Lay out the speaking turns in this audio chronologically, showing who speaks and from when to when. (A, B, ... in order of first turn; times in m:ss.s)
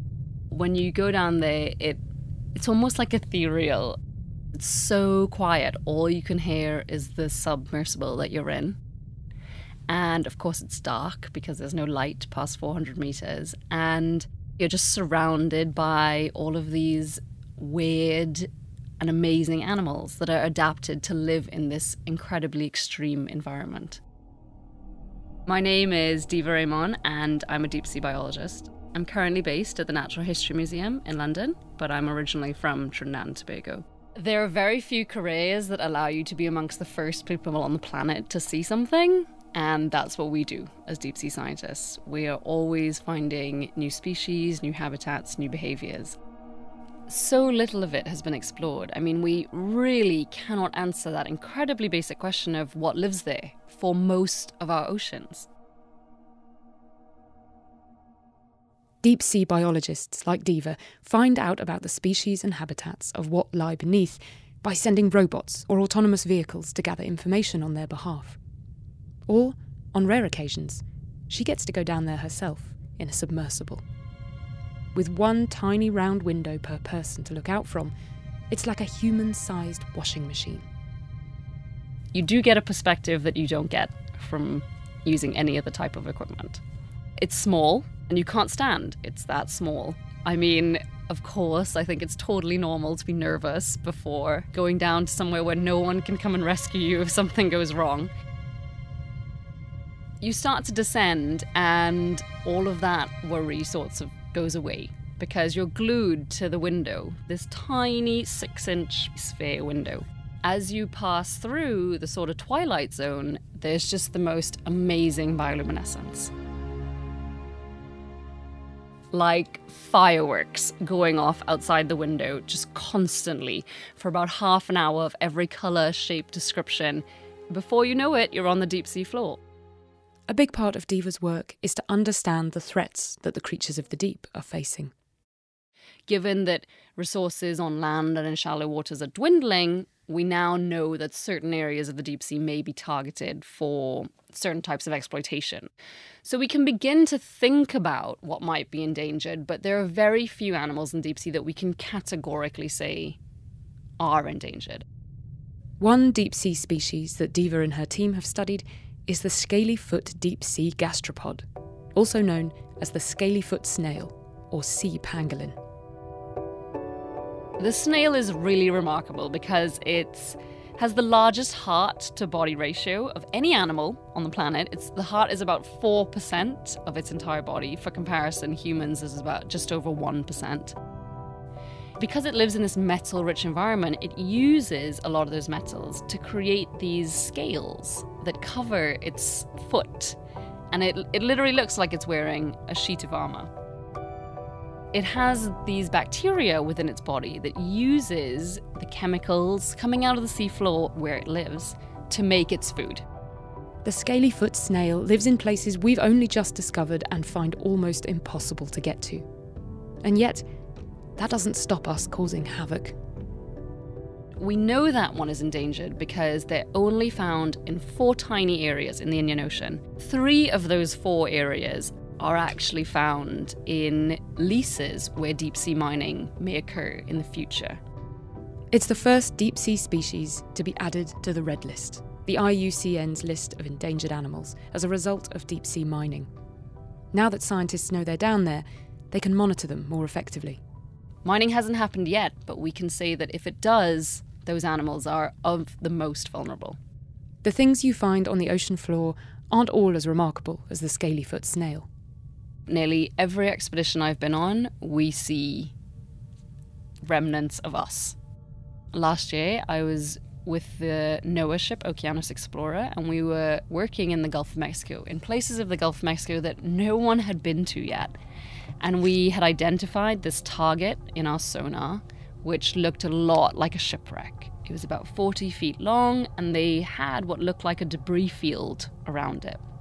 0:00.5-0:02.0 A
0:02.6-0:04.0 A
0:04.5-0:08.8 A
0:09.9-0:18.5 A
0:19.0-0:24.0 A
0:25.5-0:46.2 A
0:47.1-0:55.5 A
0:59.0-1:08.4 B
1:09.3-1:13.8 B
1:14.9-1:17.9 B
1:18.5-1:20.7 B
1:22.1-1:26.6 A
1:27.2-1:38.1 A
1:40.2-1:56.3 A
1:59.1-2:09.4 A
2:10.3-2:14.9 B
2:16.1-2:25.7 A
2:26.2-2:33.2 A
2:34.0-2:34.8 A
2:35.8-2:45.6 B
2:47.6-3:00.8 A
3:02.0-3:10.2 A
3:10.7-3:13.5 A
3:14.9-3:23.0 A
3:23.8-3:29.2 B
3:30.0-3:30.4 B
3:31.2-3:33.0 B
3:34.4-3:47.8 A
3:48.7-3:56.3 B
3:57.1-4:00.6 B
4:01.2-4:06.8 A
4:07.4-4:11.9 B
4:12.7-4:15.7 A
4:17.0-4:18.2 A
4:18.9-4:28.1 A
4:28.8-4:39.6 A